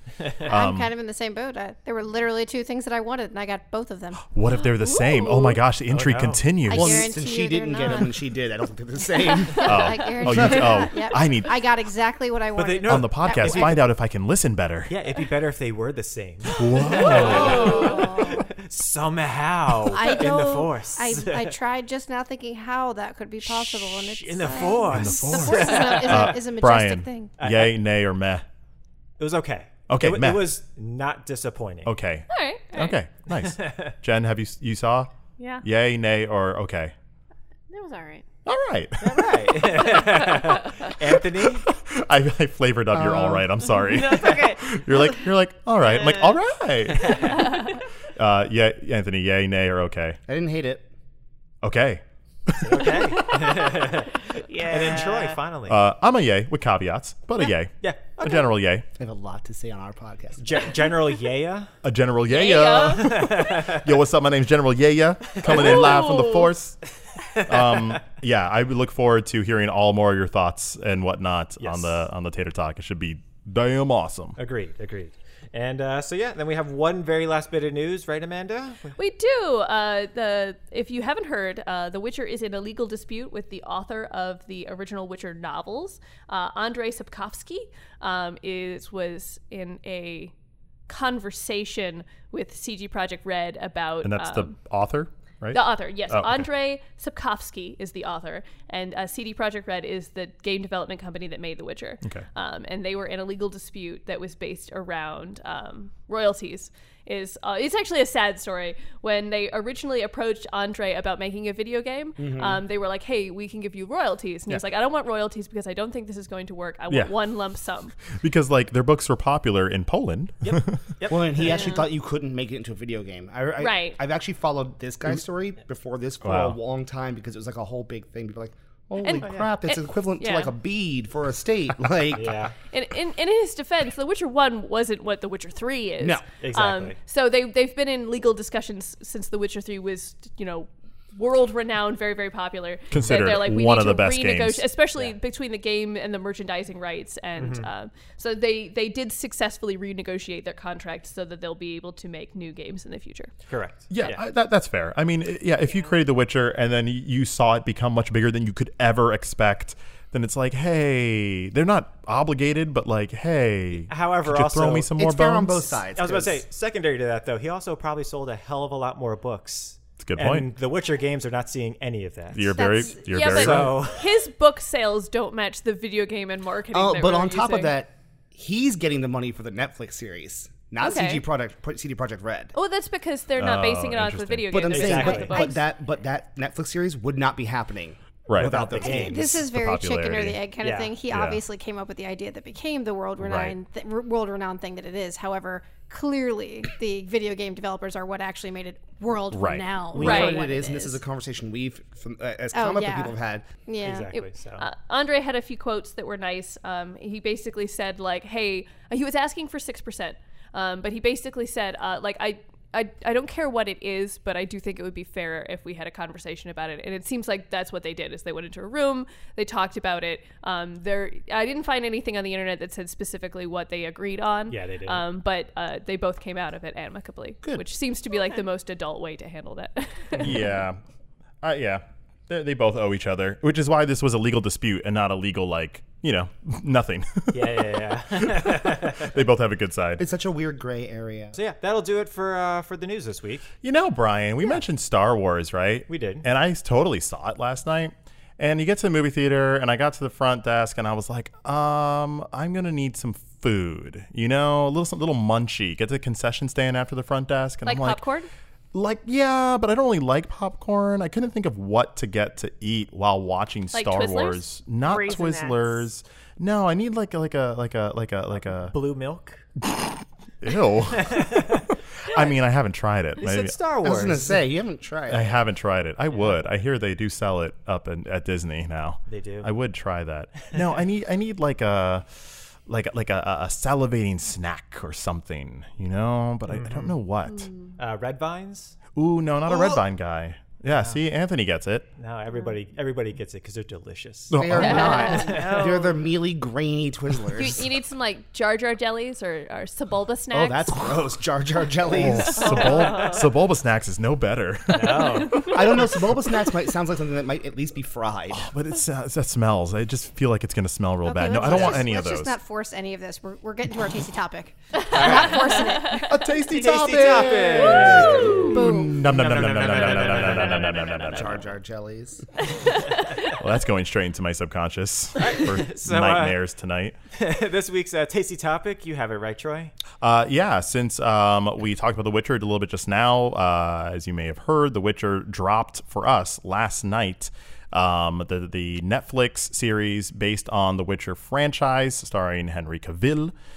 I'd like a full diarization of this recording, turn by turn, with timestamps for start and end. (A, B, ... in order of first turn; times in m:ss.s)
0:00.2-0:00.4 A
0:00.4-0:00.9 B
0:00.4-0:04.2 C
0:04.3-0:07.1 B
0:04.7-0:05.6 D
0:05.9-0:06.4 A
0:06.7-0:08.2 C
0:06.7-0:10.7 E
0:09.4-0:13.8 C
0:09.6-0:11.5 B
0:12.5-0:13.8 A
0:12.8-0:14.9 B
0:14.9-0:21.6 A
0:16.5-0:17.8 B
0:16.9-0:18.0 D
0:17.0-0:18.4 C
0:17.3-0:18.0 F
0:19.8-0:27.3 C
0:23.4-0:26.4 A
0:24.8-0:28.4 B
0:27.4-0:27.8 A
0:29.2-0:31.9 A
0:29.9-0:30.5 B
0:31.8-0:35.1 B
0:32.3-0:32.9 D
0:33.3-0:33.9 A
0:35.4-0:35.6 D
0:35.6-0:36.9 B
0:37.7-0:38.2 F
0:38.4-0:39.4 B
0:39.0-0:41.7 A
0:41.7-0:50.2 B
0:42.9-0:43.5 E
0:43.8-0:45.2 F
0:45.9-0:46.4 F
0:46.9-0:47.6 A
0:50.3-0:50.8 E
0:51.6-0:53.1 B
0:52.6-0:55.8 A
0:53.5-0:55.4 F
0:55.7-0:58.9 B
0:57.8-0:58.4 A
0:59.0-1:00.8 E
1:00.4-1:01.7 A
1:01.8-1:06.9 B
1:02.3-1:03.3 D
1:02.9-1:03.9 A
1:05.4-1:05.9 A
1:05.4-1:06.5 D
1:07.1-1:08.0 A
1:07.4-1:14.4 B
1:11.6-1:12.0 A
1:14.4-1:19.0 A
1:19.0-1:30.3 D
1:30.9-1:34.5 D
1:34.0-1:36.5 B
1:35.5-1:57.9 D
1:52.2-1:52.6 E
1:58.1-2:00.9 B
2:00.4-2:01.7 A
2:01.1-2:12.3 E
2:03.6-2:04.0 D
2:06.2-2:06.6 B
2:09.0-2:10.5 D
2:09.2-2:09.5 A
2:12.1-2:12.5 A
2:12.7-2:33.3 D
2:16.4-2:17.0 A
2:22.9-2:24.6 B
2:27.4-2:27.7 A
2:33.5-2:34.2 A
2:33.9-2:45.8 B
2:43.9-2:44.9 A
2:44.9-2:46.4 E
2:45.9-2:52.6 A
2:50.0-2:50.5 B
2:52.3-2:53.8 B
2:52.5-2:53.1 C
2:52.8-2:57.7 D
2:53.2-2:54.1 A
2:56.7-3:02.5 E
3:00.8-3:01.2 D
3:02.5-3:05.6 D
3:03.4-3:04.6 B
3:04.5-3:09.4 E
3:04.7-3:05.4 A
3:05.3-3:05.6 C
3:08.3-3:10.4 B
3:08.4-3:09.2 A
3:08.8-3:21.0 C
3:10.6-3:10.9 A
3:11.1-3:11.4 B
3:13.2-3:13.5 B
3:19.3-3:20.0 B
3:19.9-3:23.5 E
3:20.0-3:20.4 D
3:22.5-3:24.1 C
3:23.8-3:24.7 A
3:24.1-3:50.5 D
3:44.5-3:45.0 A
3:50.2-3:50.4 A
3:50.2-3:50.8 B
3:51.4-4:00.0 B
3:57.3-3:59.2 A
4:00.0-4:01.4 E
4:01.3-4:03.5 A
4:03.6-4:18.0 B
4:05.9-4:06.2 A
4:17.6-4:18.3 D
4:18.7-4:28.7 B
4:23.7-4:24.4 D
4:24.8-4:25.8 F
4:28.3-4:29.4 A
4:29.6-4:33.6 B
4:31.0-4:31.6 A
4:33.2-4:34.4 A
4:33.8-4:35.3 E
4:35.1-4:47.5 B
4:39.1-4:39.5 A
4:46.5-4:46.9 A
4:47.8-4:48.8 A
4:48.9-4:51.9 B
4:50.7-4:51.0 A
4:52.0-4:55.6 A
4:54.3-4:55.2 B
4:54.4-4:57.7 E
4:54.6-4:55.5 D
4:54.9-4:56.1 F
4:57.3-5:01.0 D
5:00.3-5:02.7 E
5:01.8-5:05.6 B
5:02.3-5:03.2 D
5:02.4-5:03.2 F
5:04.7-5:05.6 A
5:05.0-5:05.6 D
5:05.4-5:08.5 E
5:08.3-5:12.3 B
5:11.0-5:16.2 C
5:11.4-5:11.8 A
5:14.9-5:15.5 A
5:15.4-5:16.0 D
5:16.0-5:21.4 B
5:16.5-5:21.3 A
5:18.2-5:19.1 C
5:20.9-5:22.2 E
5:22.5-5:23.3 D
5:23.2-5:27.0 B
5:25.2-5:26.4 A
5:27.1-5:29.7 A
5:30.0-5:43.3 B